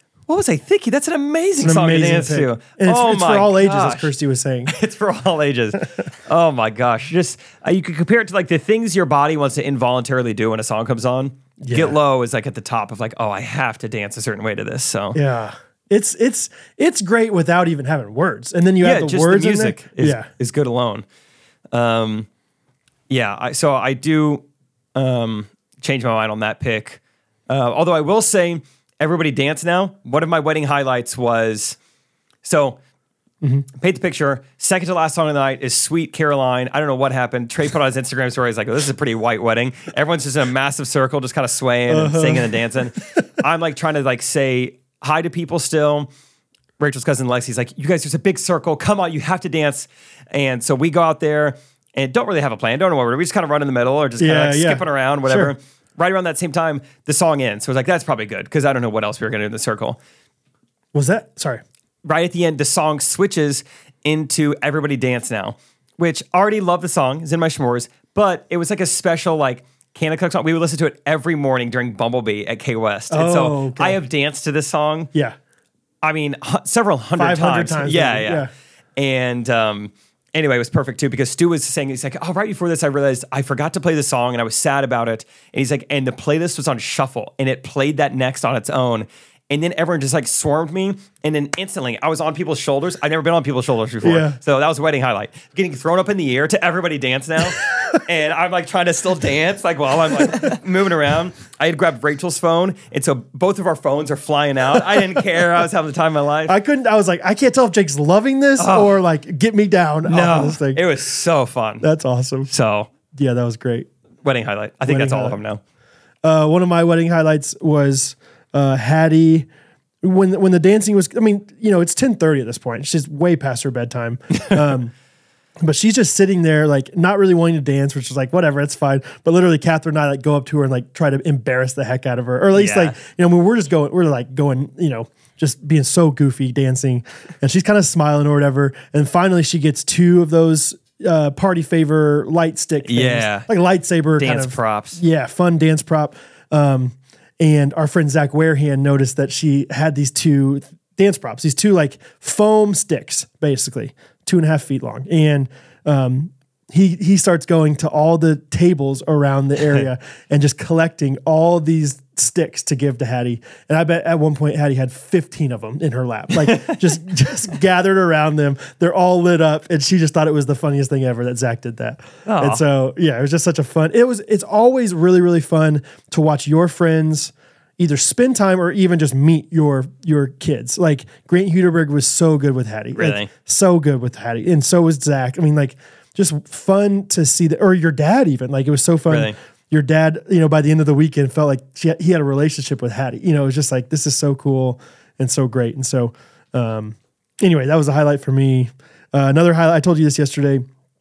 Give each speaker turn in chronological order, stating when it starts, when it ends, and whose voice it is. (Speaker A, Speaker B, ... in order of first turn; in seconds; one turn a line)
Speaker A: 0.3-4.1
Speaker B: 1.6-4.7
Speaker A: 4.7-15.2
Speaker B: 11.6-12.0
Speaker B: 15.1-20.3
Speaker A: 18.8-21.1
Speaker A: 21.7-22.3
Speaker A: 23.1-24.4
Speaker A: 24.9-31.8
Speaker A: 32.4-32.8
Speaker A: 33.7-46.1
Speaker B: 41.9-42.6
Speaker A: 46.8-60.0
Speaker B: 54.2-55.5
Speaker B: 60.9-61.6
Speaker A: 62.0-75.1
Speaker B: 73.1-74.0
Speaker A: 76.0-106.5
Speaker B: 77.2-78.5
Speaker B: 94.0-94.4
Speaker B: 106.5-110.8
Speaker A: 108.6-109.0
Speaker A: 110.1-111.8
Speaker B: 111.8-112.5
Speaker A: 112.5-112.9
Speaker B: 113.1-113.9
Speaker A: 114.2-115.6
Speaker B: 114.9-115.4
Speaker B: 116.2-119.5
Speaker B: 120.0-124.9
Speaker B: 125.6-200.7
Speaker A: 132.5-132.9
Speaker A: 142.8-143.5
Speaker A: 144.2-145.0
Speaker A: 166.5-166.8
Speaker A: 172.3-172.6
Speaker A: 182.9-183.3
Speaker A: 189.1-189.4